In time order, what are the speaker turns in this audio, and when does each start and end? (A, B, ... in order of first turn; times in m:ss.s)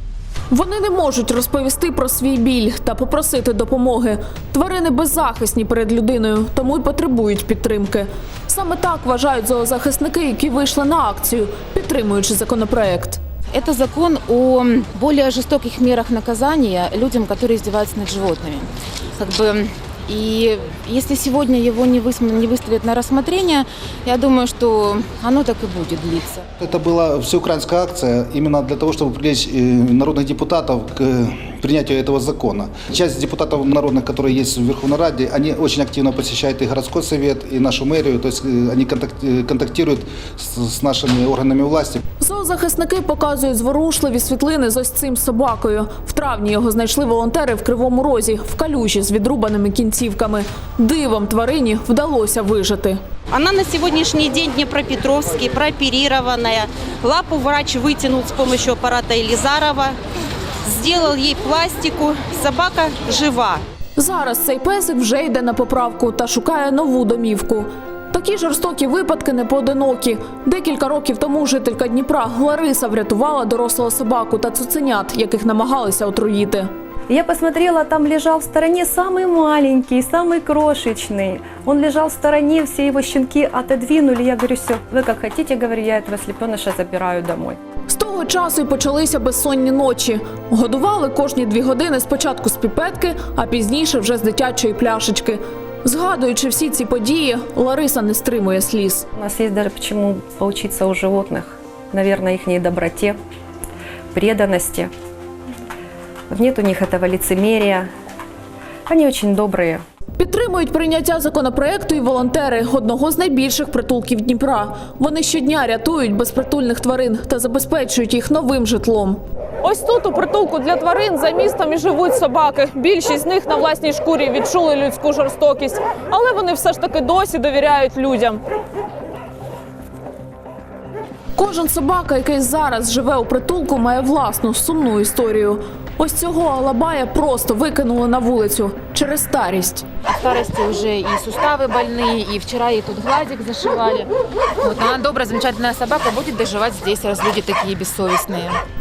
0:00.5-0:13.2 A
0:13.5-0:26.4 B
0:26.6-0:42.0 C
0:42.2-0:53.0 A
0:53.3-1:00.0 D
1:00.6-1:03.6 D
1:04.0-1:16.7 A
1:17.1-1:27.6 E
1:27.9-1:39.0 A
1:39.2-1:43.2 E
1:44.1-1:44.9 E
1:46.3-1:47.9 E
1:48.9-1:49.8 E
1:50.2-2:08.4 A
2:11.4-2:19.8 A
2:20.0-2:24.1 B
2:24.6-2:28.6 B